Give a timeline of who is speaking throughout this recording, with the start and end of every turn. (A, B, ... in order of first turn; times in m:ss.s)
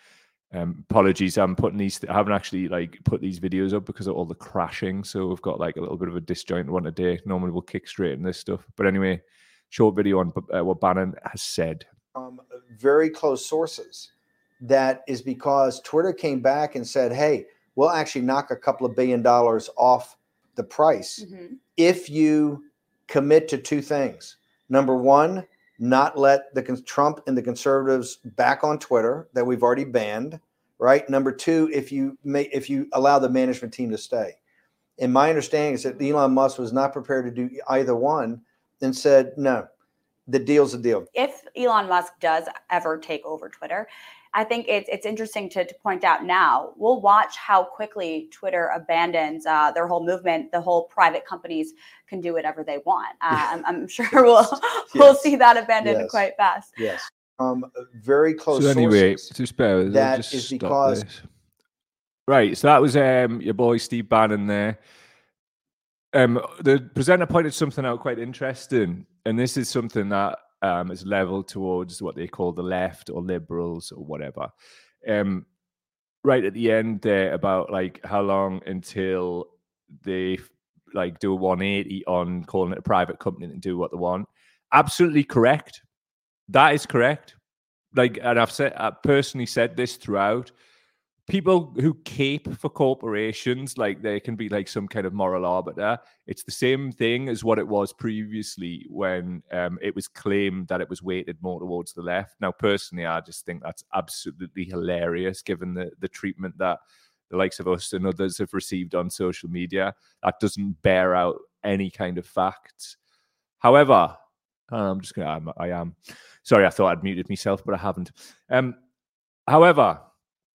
0:00.5-0:11.9 A
0:12.2-0:34.4 B
0:35.0-0:39.7 B
0:40.3-0:41.1 B
0:41.2-0:56.8 C
0:54.9-0:55.3 B
0:55.8-0:56.2 B
0:56.8-0:59.3 B
0:58.5-1:01.2 A
0:59.9-1:01.0 B
1:02.3-1:04.8 A
1:06.1-1:14.5 A
1:15.0-1:15.5 A
1:16.2-1:19.5 A
1:20.0-1:25.8 A
1:26.5-1:27.4 A
1:28.0-1:30.5 A
1:31.3-1:53.0 A
1:53.6-1:58.8 A
1:59.5-2:00.1 A